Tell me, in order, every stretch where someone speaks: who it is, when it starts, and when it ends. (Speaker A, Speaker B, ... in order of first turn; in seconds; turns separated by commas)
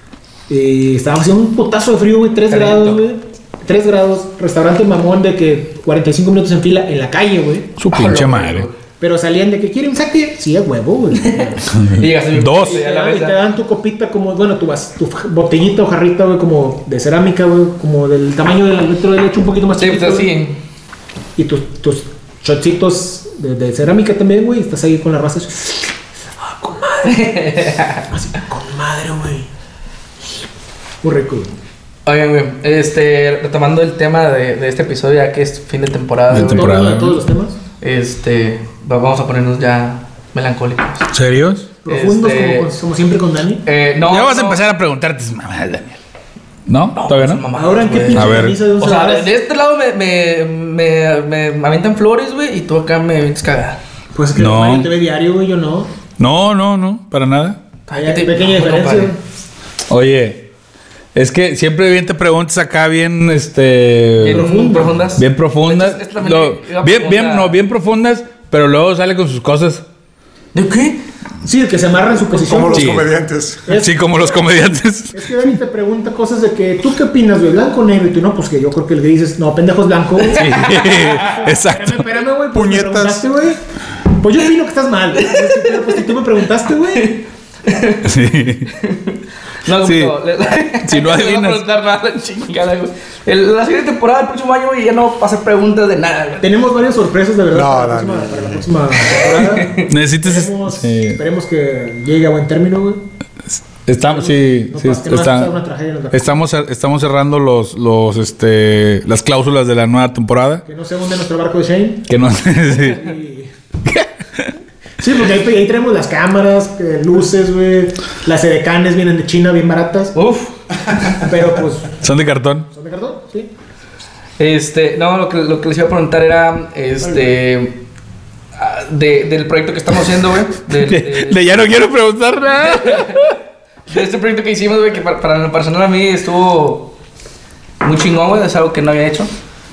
Speaker A: 0.5-7.8, Speaker B: 2.5-3.0, Speaker C: 7.8-8.7, Speaker B: 7.9-8.8, Speaker A: 9.0-11.7, Speaker B: 11.2-13.4, Speaker C: 11.7-12.8, Speaker A: 12.6-20.3, Speaker B: 19.8-20.6, Speaker A: 21.4-27.6, Speaker B: 27.1-28.1, Speaker A: 28.1-29.5, Speaker A: 31.0-31.5, Speaker B: 32.1-36.8, Speaker C: 36.3-37.2, Speaker A: 36.3-37.6, Speaker B: 37.8-41.1, Speaker C: 41.1-41.7, Speaker A: 41.8-43.6, Speaker B: 41.9-42.7, Speaker B: 43.6-44.6, Speaker C: 44.1-46.0, Speaker C: 46.7-47.4, Speaker B: 47.0-53.8, Speaker A: 47.5-49.3, Speaker C: 48.1-48.6, Speaker A: 54.1-55.9, Speaker C: 54.4-54.9, Speaker C: 56.2-57.6, Speaker B: 57.9-59.1, Speaker A: 57.9-59.2, Speaker C: 59.9-60.5, Speaker C: 61.1-64.5, Speaker B: 64.2-67.6, Speaker A: 64.2-65.1, Speaker C: 65.2-69.8, Speaker B: 70.5-71.0, Speaker A: 71.4-73.0, Speaker D: 72.3-73.7, Speaker C: 72.7-73.1, Speaker A: 73.7-74.4, Speaker C: 73.7-75.5, Speaker A: 75.1-87.2, Speaker C: 80.2-82.1, Speaker D: 82.5-83.3, Speaker B: 85.2-85.8, Speaker B: 87.0-88.1, Speaker C: 88.0-88.7, Speaker B: 88.7-96.5, Speaker C: 89.8-90.1, Speaker C: 90.8-91.6, Speaker A: 96.4-103.1, Speaker D: 97.5-98.7, Speaker B: 99.2-99.9, Speaker C: 99.8-101.2, Speaker C: 103.5-105.5, Speaker A: 104.0-106.3, Speaker C: 106.1-110.7, Speaker A: 110.7-112.1, Speaker C: 112.1-113.1, Speaker A: 112.7-113.5, Speaker C: 113.9-114.5, Speaker A: 115.0-120.2, Speaker B: 120.2-121.2, Speaker A: 121.1-122.0, Speaker C: 122.0-122.7, Speaker A: 122.7-123.5, Speaker B: 124.4-127.8, Speaker B: 128.6-131.4, Speaker C: 130.7-133.4, Speaker B: 132.7-133.3, Speaker B: 133.9-136.9, Speaker B: 137.8-139.3